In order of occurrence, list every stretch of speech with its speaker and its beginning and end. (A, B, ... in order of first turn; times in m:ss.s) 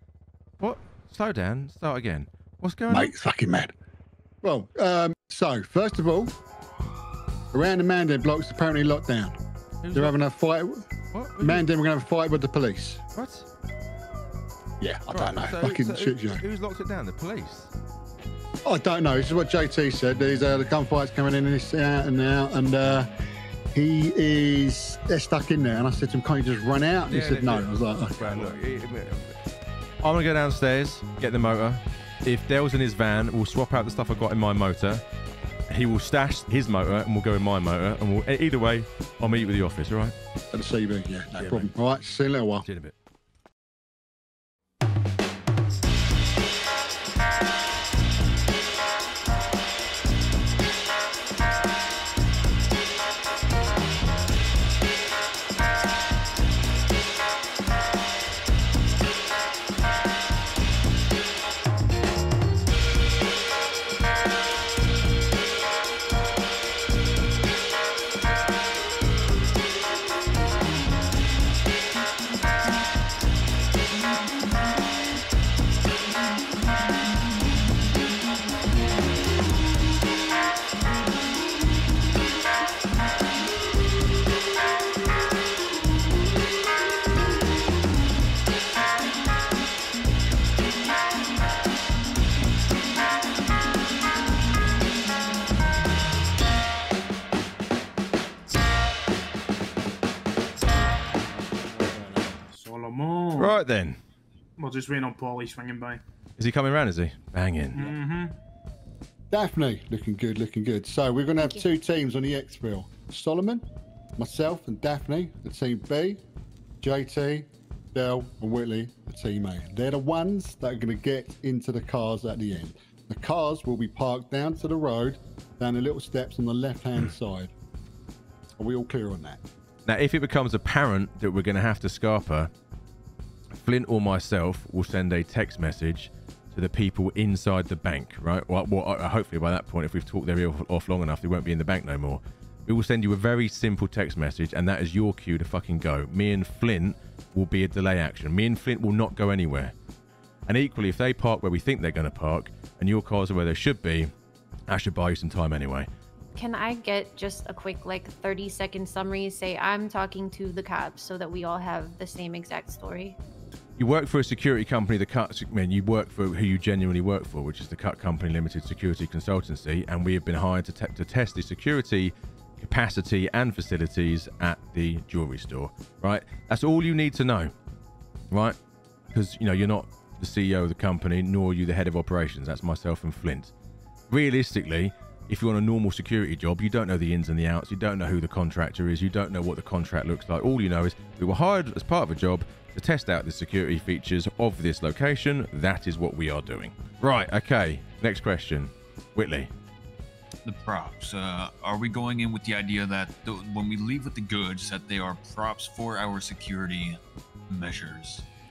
0:00.6-0:03.1 A
0:02.9-0:03.7 B
0:04.4-0:06.3 B
0:07.5-0:09.4 B
0:09.8-0:10.2 A
0:09.9-0:13.0 B
0:11.1-0:11.6 A
0:13.2-0:13.5 A
0:14.8-0:16.4 B
0:15.1-0:17.7 A
0:18.6-0:23.1 B
0:23.7-0:28.6 B
0:27.1-0:29.4 A
0:30.0-0:35.0 A
0:35.7-0:40.2 A
0:40.5-0:42.7 B
0:41.3-0:41.7 A
0:42.6-0:42.9 A
1:41.4-1:42.3 B
1:42.5-1:43.6 C
1:43.4-1:44.0 A
1:44.6-1:46.0 C
1:46.4-1:47.9 A
1:47.8-1:48.3 C
1:49.3-1:53.6 B
1:54.2-1:56.2 B
1:56.8-2:07.5 B
2:08.6-2:09.4 B
2:09.9-2:12.5 A
2:13.6-2:29.7 A
2:30.5-2:34.1 A
2:34.7-2:35.9 A
2:36.4-2:43.2 D
2:43.8-2:57.5 A
2:58.3-2:58.6 A
2:59.1-3:03.5 A
3:04.1-3:19.5 A
3:20.4-3:28.3 E